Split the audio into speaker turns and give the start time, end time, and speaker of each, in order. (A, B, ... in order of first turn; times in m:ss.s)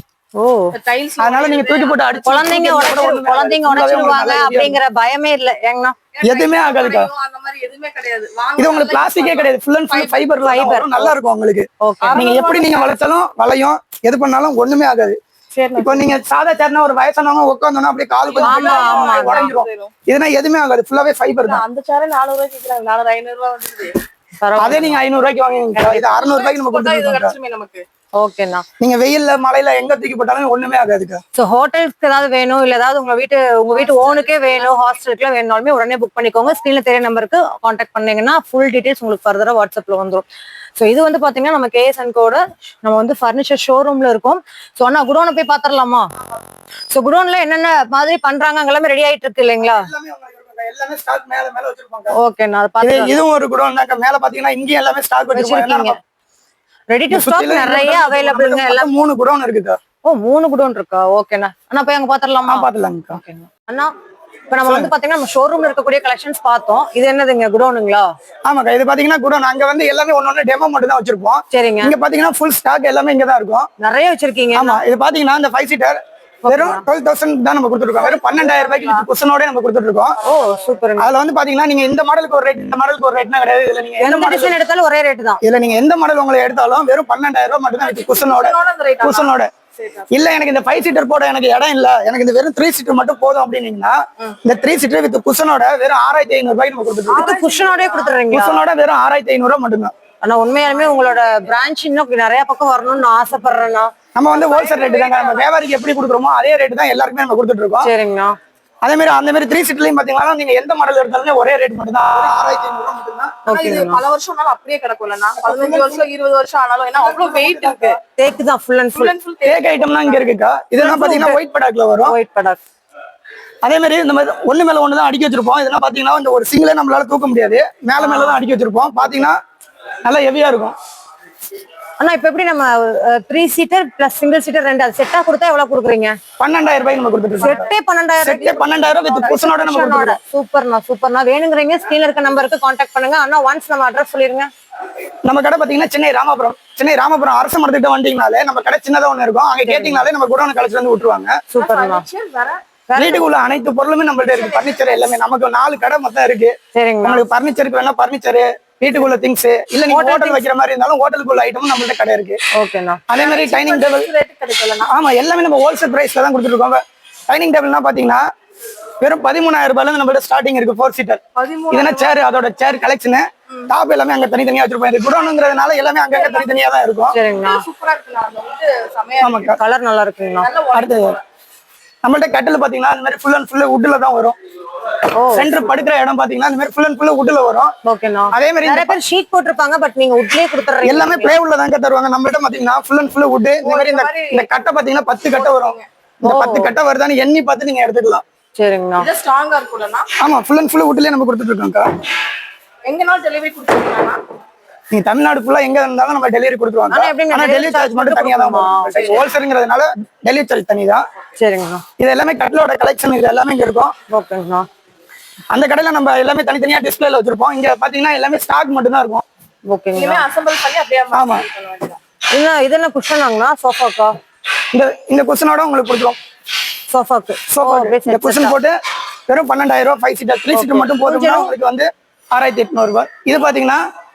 0:00.4-0:00.7 A
0:00.7-0:02.0 B
0:01.2-0:04.8 C
0:02.2-0:06.0 A
0:06.1-0:10.2 B
0:06.2-0:07.1 C
0:08.6-0:15.2 C
0:10.4-0:11.1 A
0:11.8-0:12.2 A
0:12.0-0:13.0 B
0:15.5-0:16.1 B
0:15.8-0:21.6 C
0:18.2-0:19.9 B
0:18.4-0:19.5 A
0:21.4-0:24.0 B
0:24.4-0:25.0 A
0:24.6-0:27.4 C
0:25.8-0:27.8 B
0:28.2-0:28.6 A
0:28.8-0:31.2 C
0:31.3-0:40.2 A
0:33.7-0:34.6 B
0:40.8-0:46.1 A
0:46.9-0:49.9 A
0:49.6-0:52.2 C
0:52.1-0:53.2 A
0:52.8-0:55.9 C
0:55.3-0:56.0 A
0:56.9-0:58.9 A
0:57.1-0:59.8 C
1:00.0-1:03.9 A
1:02.4-1:03.2 C
1:04.5-1:08.1 A
1:04.6-1:04.9 C
1:08.4-1:13.7 C
1:11.5-1:11.9 A
1:13.8-1:14.8 A
1:14.5-1:20.2 C
1:16.4-1:16.8 A
1:18.0-1:19.0 B
1:20.2-1:20.8 B
1:20.2-1:21.1 A
1:21.0-1:24.5 C
1:24.0-1:25.4 A
1:25.4-1:29.5 C
1:27.8-1:30.2 B
1:30.1-1:37.2 C
1:37.1-1:38.2 B
1:37.2-1:38.6 A
1:38.3-1:39.9 C
1:40.2-1:43.9 A
1:44.2-1:47.9 C
1:44.3-1:45.5 B
1:47.8-1:48.3 A
1:48.8-1:53.4 C
1:53.5-1:54.0 A
1:53.5-1:58.0 B
1:55.4-1:56.1 C
1:57.0-1:58.0 C
1:58.0-1:59.1 A
1:58.9-2:00.2 B
1:59.4-2:02.1 C
2:00.8-2:01.4 A
2:02.0-2:02.6 A
2:03.6-2:09.4 C
2:08.0-2:08.4 A
2:10.0-2:10.7 C
2:12.0-2:16.1 A
2:16.4-2:17.7 C
2:17.4-2:24.5 A
2:18.2-2:20.2 C
2:25.2-2:31.3 C
2:29.6-2:30.0 A
2:31.5-2:32.0 A
2:31.5-2:32.6 B
2:32.9-2:33.3 A
2:33.0-2:42.4 C
2:34.2-2:34.8 B
2:36.7-2:37.2 A
2:39.9-2:40.4 A
2:42.5-2:43.0 A
2:43.1-2:44.1 C
2:43.2-2:44.9 B
2:44.8-2:48.2 C
2:49.0-2:57.2 C
2:51.4-2:52.2 B
2:56.1-2:56.5 B
2:57.1-2:57.6 A
2:57.3-2:59.5 B
2:59.2-2:59.6 C
2:59.5-3:00.5 A
3:00.4-3:01.2 B
3:00.7-3:01.2 C
3:02.0-3:04.3 C
3:05.1-3:05.6 A
3:05.3-3:07.7 C
3:07.8-3:11.4 A
3:08.3-3:09.0 C
3:10.8-3:18.2 C
3:13.6-3:14.5 B
3:15.2-3:15.8 B
3:16.2-3:16.7 A
3:18.6-3:19.1 A
3:19.0-3:20.1 B
3:20.2-3:21.8 C
3:22.8-3:24.2 B
3:24.9-3:31.0 C
3:26.9-3:29.2 A
3:31.4-3:31.8 A
3:32.0-3:33.9 C
3:34.1-3:34.6 A
3:35.5-3:39.2 C
3:39.7-3:40.2 A
3:39.9-3:42.0 B
3:41.1-3:41.4 C
3:42.3-3:44.1 A
3:44.7-3:46.2 C
3:46.9-3:48.5 A
3:47.5-3:48.7 C
3:49.3-3:53.8 C
3:50.5-3:51.5 A